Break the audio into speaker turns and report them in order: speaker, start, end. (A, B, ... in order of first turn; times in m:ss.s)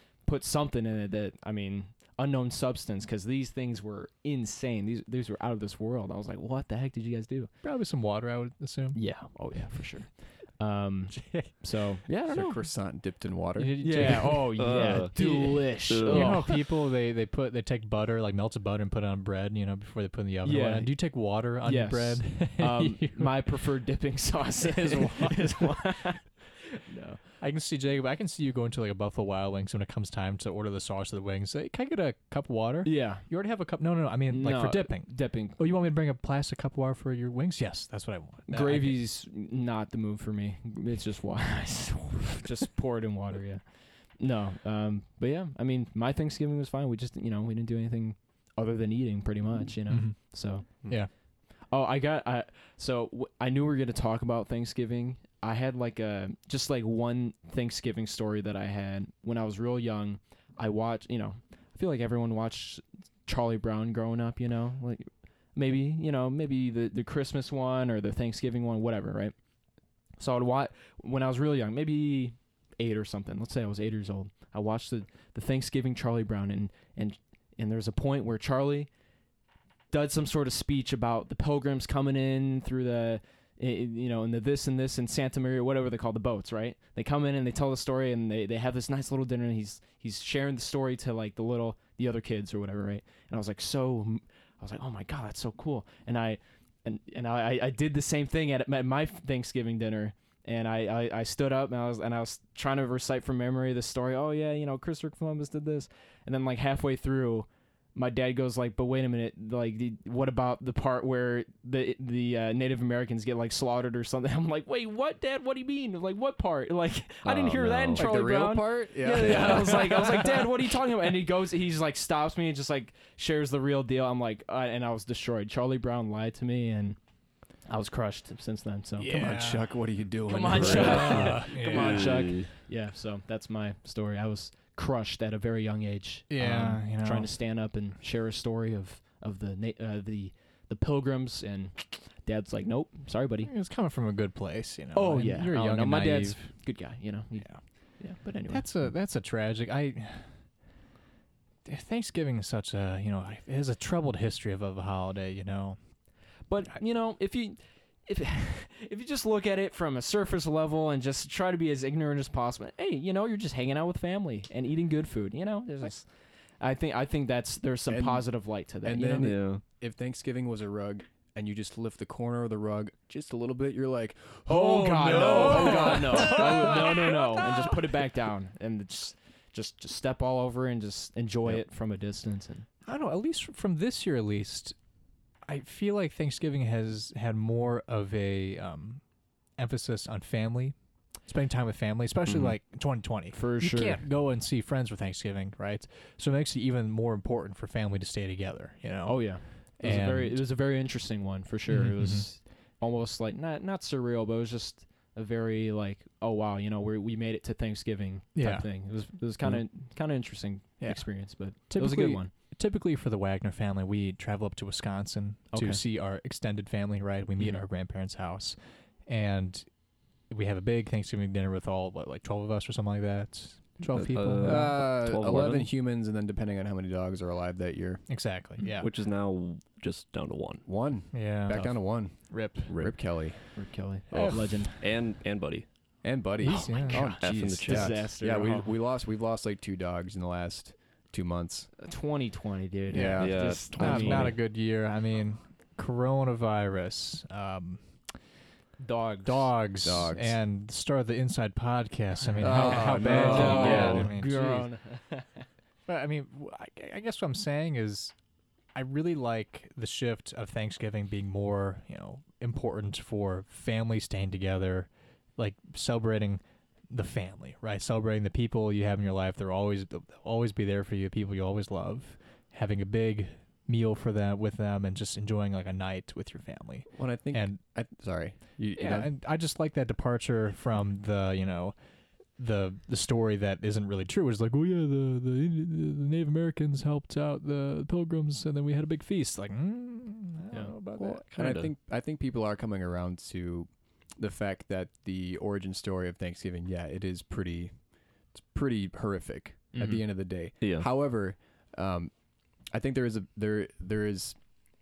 0:00.2-0:07.5 A
0:07.6-0:09.0 B
0:09.0-0:12.6 A
0:11.1-0:11.5 B
0:12.3-0:14.3 C
0:13.6-0:15.3 B
0:13.8-0:16.6 A
0:14.6-0:16.5 D
0:16.0-0:23.5 B
0:20.4-0:20.9 A
0:21.6-0:27.2 A
0:24.7-0:25.6 B
0:27.4-0:39.0 B
0:32.8-0:33.3 A
0:34.3-0:35.6 A
0:38.5-0:43.6 A
0:44.2-0:50.7 A
0:49.9-0:50.3 B
0:51.7-1:09.4 A
1:10.2-1:18.9 A
1:19.9-2:07.0 A
1:57.2-2:00.0 C
1:57.4-1:58.0 D
2:07.7-2:09.2 A
2:09.0-2:09.7 B
2:09.1-2:11.4 C
2:10.3-2:23.5 A
2:10.5-2:12.3 B
2:10.8-2:12.5 D
2:16.3-2:17.3 B
2:23.4-2:26.5 B
2:24.9-2:27.5 A
2:28.0-2:28.6 A
2:28.5-2:30.3 B
2:31.6-2:35.8 B
2:36.5-2:46.1 A
2:46.6-2:49.4 A
2:47.9-2:48.3 C
2:48.8-2:57.0 C
2:49.2-2:49.6 D
2:54.5-3:02.7 A
2:55.1-2:57.2 B
3:02.8-3:04.8 B
3:05.5-3:09.0 B
3:09.6-3:20.4 B
3:12.3-3:12.5 D
3:13.3-3:14.0 A
3:19.0-3:32.3 A
3:21.7-3:22.3 B
3:28.4-3:28.7 B
3:30.8-3:39.7 B
3:35.5-3:35.8 A
3:40.3-3:44.8 B
3:43.9-3:45.7 D
3:44.4-3:48.0 C
3:48.1-3:48.9 B
3:48.8-3:50.7 D
3:50.7-3:53.4 C
3:51.1-3:52.7 B
3:52.7-3:53.0 D
3:53.5-3:54.8 A
3:54.1-3:54.7 B
3:54.6-3:55.7 D
3:56.0-4:01.7 C
3:56.4-3:57.2 B
3:56.5-3:58.7 A
3:57.2-3:58.0 D
4:01.8-4:04.3 A
4:02.9-4:03.7 C
4:02.9-4:07.8 B
4:03.2-4:04.4 D
4:08.8-4:09.5 A
4:09.2-4:14.7 B
4:09.8-4:10.4 C
4:12.4-4:15.5 A
4:12.4-4:14.0 C
4:12.5-4:14.1 D
4:15.9-4:18.1 B
4:18.8-4:37.6 B
4:36.9-4:39.1 C
4:38.8-4:41.7 B
4:42.4-4:51.2 B
4:51.0-4:57.7 C
4:51.2-4:51.7 D
4:58.3-5:02.1 C
4:59.7-5:00.0 A
5:00.6-5:00.9 D
5:02.7-5:04.4 C